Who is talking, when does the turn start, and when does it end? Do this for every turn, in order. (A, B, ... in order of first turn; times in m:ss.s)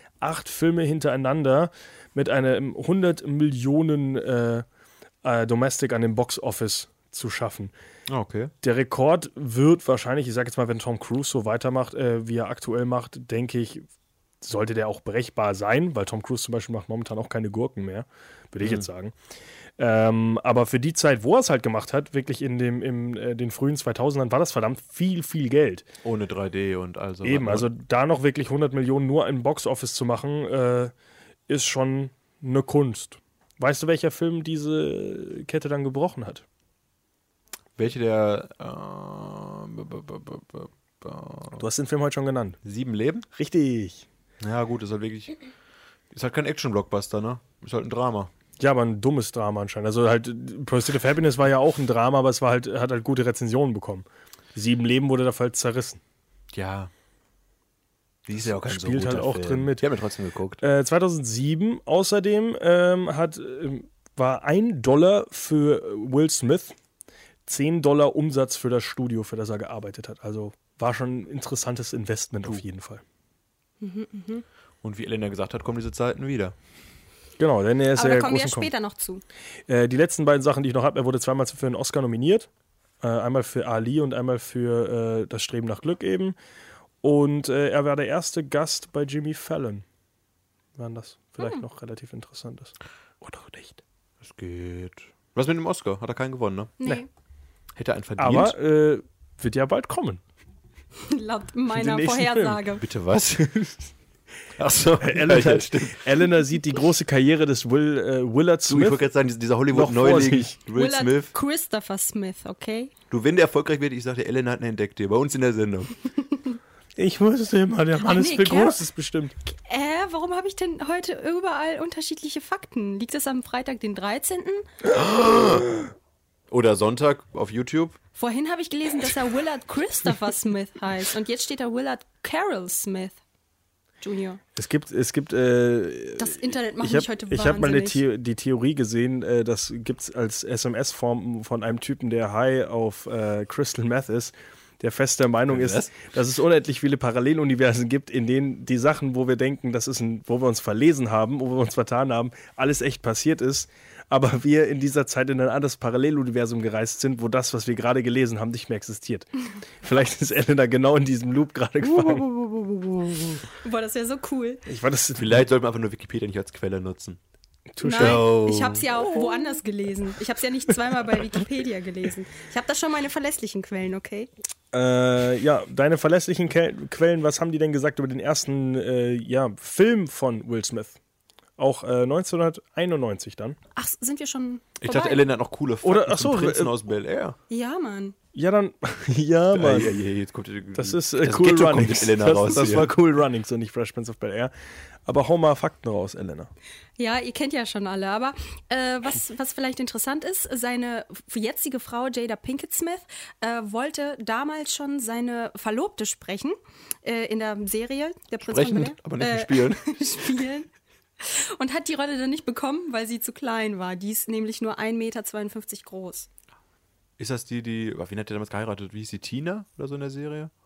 0:00.2-0:04.6 A
0:05.2-0:07.7 A
0:08.1-0:08.5 B
0:08.6-0:13.8 A
0:14.4-0:19.1 A
0:18.6-0:18.9 B
0:19.8-0:25.9 A
0:26.0-0:27.7 B
0:27.2-0:30.9 A
0:31.5-0:36.4 A
0:37.8-0:41.6 B
0:41.6-0:42.6 A
0:42.6-0:43.2 B
0:43.3-0:44.0 A
0:44.4-0:45.4 B
0:46.1-0:48.3 B
0:48.6-0:56.0 A
0:56.5-0:56.9 B
0:58.2-1:00.6 B
0:58.3-0:59.9 A
1:00.6-1:06.7 A
1:07.4-1:13.0 A
1:13.8-1:14.4 C
1:14.8-1:16.5 B
1:17.4-1:18.7 A
1:18.0-1:19.2 C
1:19.7-1:22.5 A
1:23.0-1:26.4 A
1:27.0-1:29.8 A
1:30.8-1:33.8 A
1:34.2-1:36.8 B
1:36.8-1:37.1 C
1:37.7-1:38.6 B
1:38.2-1:40.2 A
1:41.0-1:42.8 C
1:41.7-1:42.6 A
1:42.8-1:43.9 B
1:44.6-1:46.0 B
1:45.0-1:49.1 A
1:48.7-1:51.3 B
1:49.7-1:50.6 A
1:50.7-1:52.9 C
1:53.1-1:55.9 B
1:57.0-1:59.3 A
1:58.0-1:58.8 C
1:59.4-2:04.7 C
2:04.9-2:05.7 B
2:06.5-2:08.0 B
2:08.2-2:13.2 C
2:14.0-2:14.4 C
2:14.6-2:39.3 A
2:16.2-2:18.0 C
2:25.5-2:26.1 B
2:39.8-2:43.4 A
2:41.9-2:42.3 B
2:43.6-2:44.6 C
2:44.6-2:45.4 A
2:45.1-2:47.2 B
2:47.8-2:48.3 A
2:47.8-2:54.3 C
2:47.9-2:48.9 B
2:54.7-3:01.0 A
3:01.6-3:03.6 A
3:03.8-3:05.2 C
3:04.8-3:07.4 B
3:05.8-3:06.7 A
3:07.5-3:08.1 C
3:08.3-3:10.0 A
3:09.5-3:12.9 B
3:10.7-3:14.5 A
3:15.0-3:16.5 A
3:17.0-3:30.7 C
3:28.4-3:29.9 B
3:31.2-3:36.3 C
3:37.2-3:40.5 B